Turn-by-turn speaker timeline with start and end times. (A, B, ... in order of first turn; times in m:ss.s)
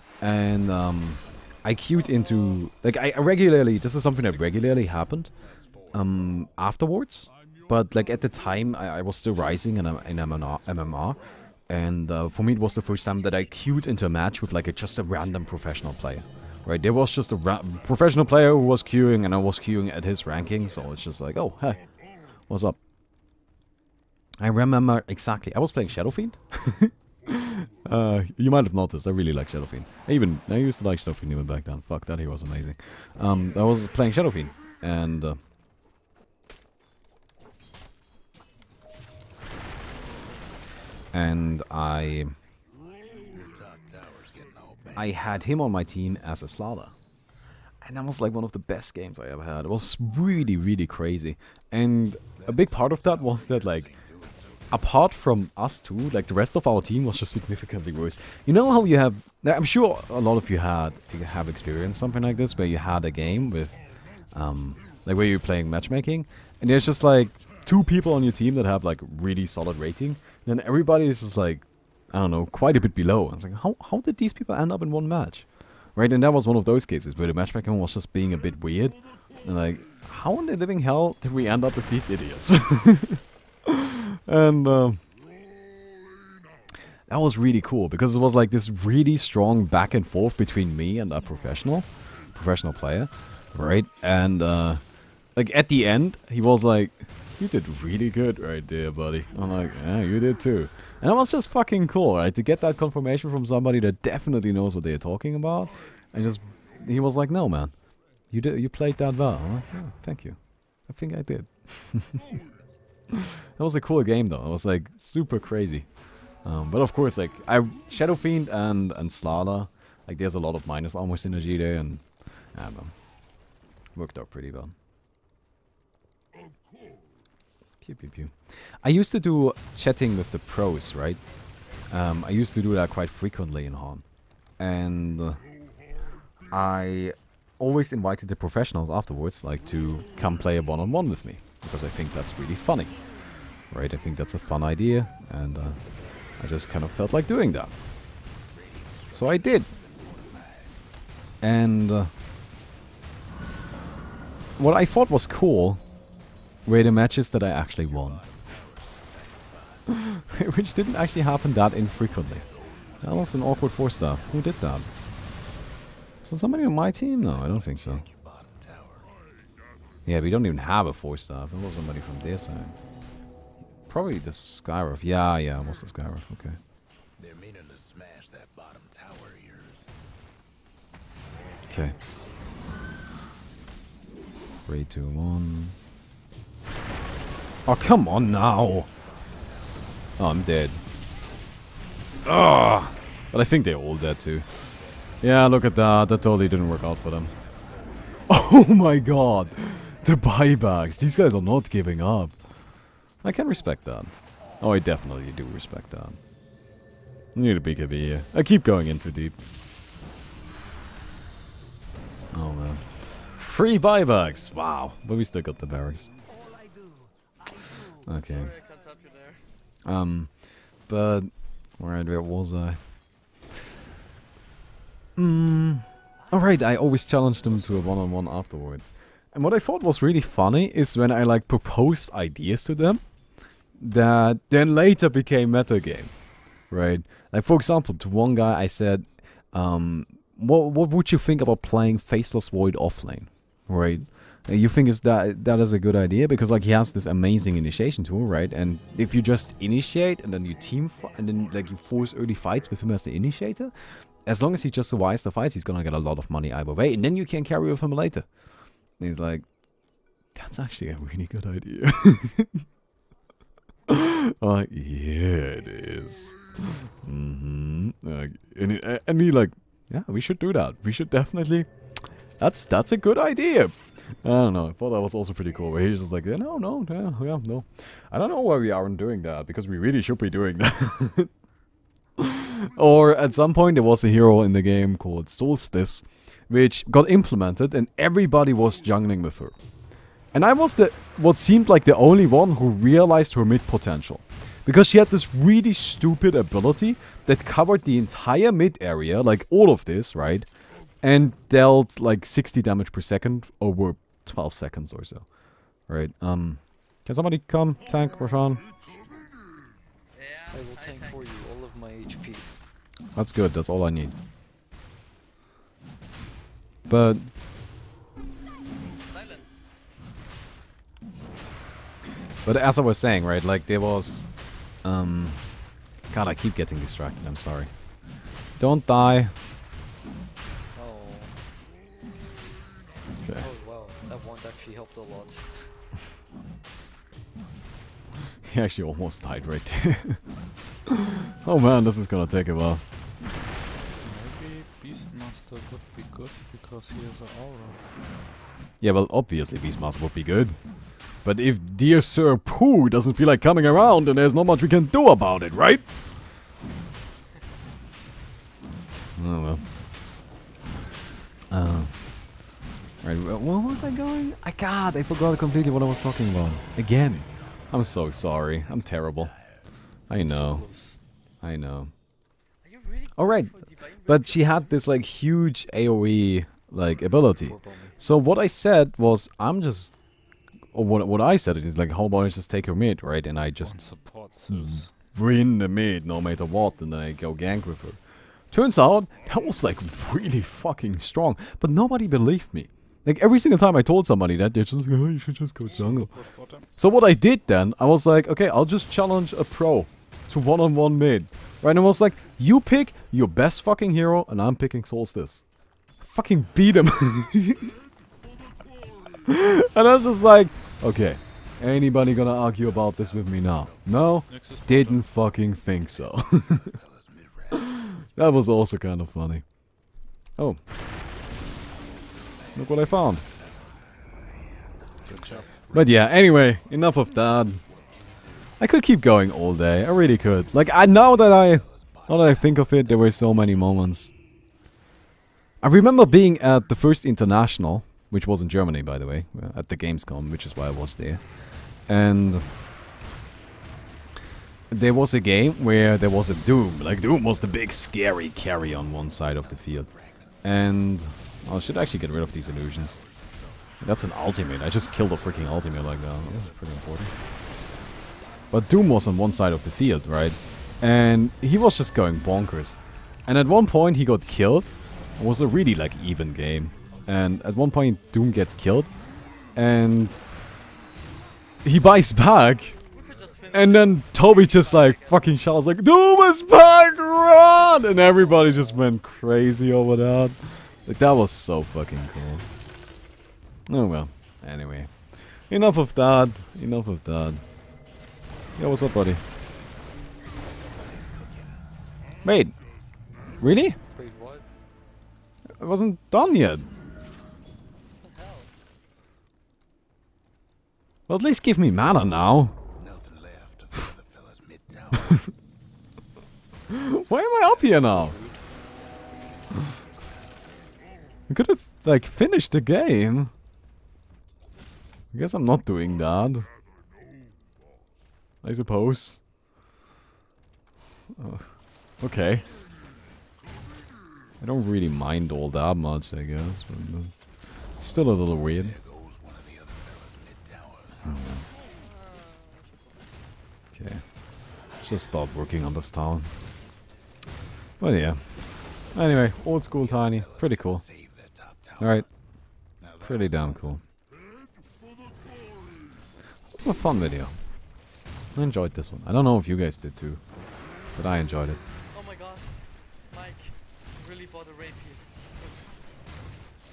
0:00.2-0:05.3 A
0:04.2-0:06.5 B
0:05.9-0:22.8 A
0:10.3-0:12.1 B
0:13.1-0:13.4 B
0:20.4-0:21.0 B
0:24.4-0:35.4 A
0:41.1-0:42.4 A
0:43.2-0:45.5 B
0:45.0-0:47.0 A
0:47.8-0:53.9 A
0:52.4-0:54.9 B
0:54.7-1:23.7 A
1:24.2-1:25.0 A
1:27.1-1:52.3 A
1:53.1-2:03.0 A
2:03.9-2:04.7 A
2:07.8-2:11.2 A
2:11.9-2:14.0 A
2:14.6-2:15.4 A
2:16.5-2:23.1 A
2:23.7-2:27.7 A
2:28.5-2:30.8 B
2:29.1-2:29.7 A
2:31.4-2:32.1 A
2:34.6-2:35.8 A
2:36.6-2:38.2 A
2:37.7-2:39.9 B
2:40.1-2:42.4 A
2:41.8-2:44.9 B
2:43.0-2:44.9 A
2:46.2-2:48.0 A
2:47.2-2:49.1 B
2:50.0-2:52.7 A
2:53.9-2:56.6 A
2:57.2-2:59.9 B
3:01.7-3:01.9 A
3:04.6-3:05.8 A
3:07.6-3:08.9 A
3:09.0-3:09.8 B
3:10.2-3:10.8 A
3:12.2-3:14.4 A
3:15.2-3:17.3 A
3:18.3-3:22.4 A
3:23.2-3:26.2 A
3:27.3-3:29.4 A
3:32.3-3:36.1 A
3:38.0-3:38.5 A
3:38.2-3:39.5 C
3:39.8-3:42.8 A
3:45.2-3:53.0 A
3:53.8-3:56.2 A
3:56.7-4:19.5 A
4:20.3-4:22.6 A
4:23.9-4:41.3 A
4:42.2-4:49.5 A
4:50.3-5:00.5 A
5:01.0-5:05.3 A
5:05.8-5:08.6 A
5:10.1-5:11.3 C
5:10.5-5:12.5 D
5:13.1-5:14.1 A
5:16.9-5:17.3 A
5:19.1-5:19.8 C
5:22.4-5:25.5 A
5:26.1-5:27.7 A
5:28.6-5:29.3 A
5:30.7-5:31.4 D
5:33.3-5:35.7 D
5:38.4-5:40.4 A
5:41.4-5:42.8 A
5:44.0-5:47.8 E
5:48.8-5:55.9 A
5:59.2-5:59.7 A
6:01.5-6:02.3 A
6:03.0-6:11.9 A
6:05.5-6:09.9 B
6:10.2-6:11.0 D
6:12.6-6:15.0 C
6:13.1-6:19.9 A
6:17.3-6:18.0 D
6:20.7-6:45.4 A
6:23.6-6:24.9 E
6:35.6-6:36.7 E
6:46.0-6:47.7 A
6:49.2-6:56.7 A
6:52.4-6:54.2 B
6:54.3-6:55.1 E
6:55.8-6:58.0 B
6:57.8-6:59.6 A
7:02.2-7:04.0 B
7:02.5-7:03.2 A
7:05.0-7:06.1 B
7:05.0-7:05.5 E
7:05.1-7:05.5 D
7:05.7-7:07.6 A
7:07.6-7:08.6 B
7:08.6-7:14.1 A
7:10.6-7:13.6 B
7:15.6-7:22.5 A
7:24.7-7:33.0 A
7:29.2-7:30.5 B
7:31.9-7:33.9 B
7:33.8-7:37.1 A
7:35.1-7:38.8 B
7:38.5-7:49.0 A
7:49.5-7:50.3 A
7:51.6-7:52.8 A
7:52.9-7:55.4 C
7:53.5-8:02.4 A
7:58.1-7:58.8 D
8:03.7-8:07.4 A
8:08.6-8:09.2 A
8:10.3-8:11.7 B
8:12.2-8:12.6 A
8:13.4-8:13.8 A
8:13.9-8:14.4 D
8:15.6-8:16.7 A
8:18.0-8:18.5 C
8:21.1-8:22.5 A
8:22.8-8:25.3 B
8:26.7-8:28.2 A
8:27.4-8:28.4 D
8:31.3-8:33.3 A
8:35.1-8:36.5 A
8:38.4-8:39.2 A
8:41.2-8:42.5 A
8:44.4-8:48.8 A
8:48.5-8:51.2 B
8:51.0-8:51.4 A
8:51.6-8:53.2 C
8:53.7-8:54.1 A
8:54.7-8:56.3 A
8:57.8-9:00.8 A
8:59.5-9:02.0 B
9:01.8-9:02.1 A
9:02.8-9:03.8 B
9:03.0-9:03.8 A
9:06.5-9:07.4 A
9:08.3-9:10.2 A
9:10.9-9:11.6 A
9:11.9-9:15.7 C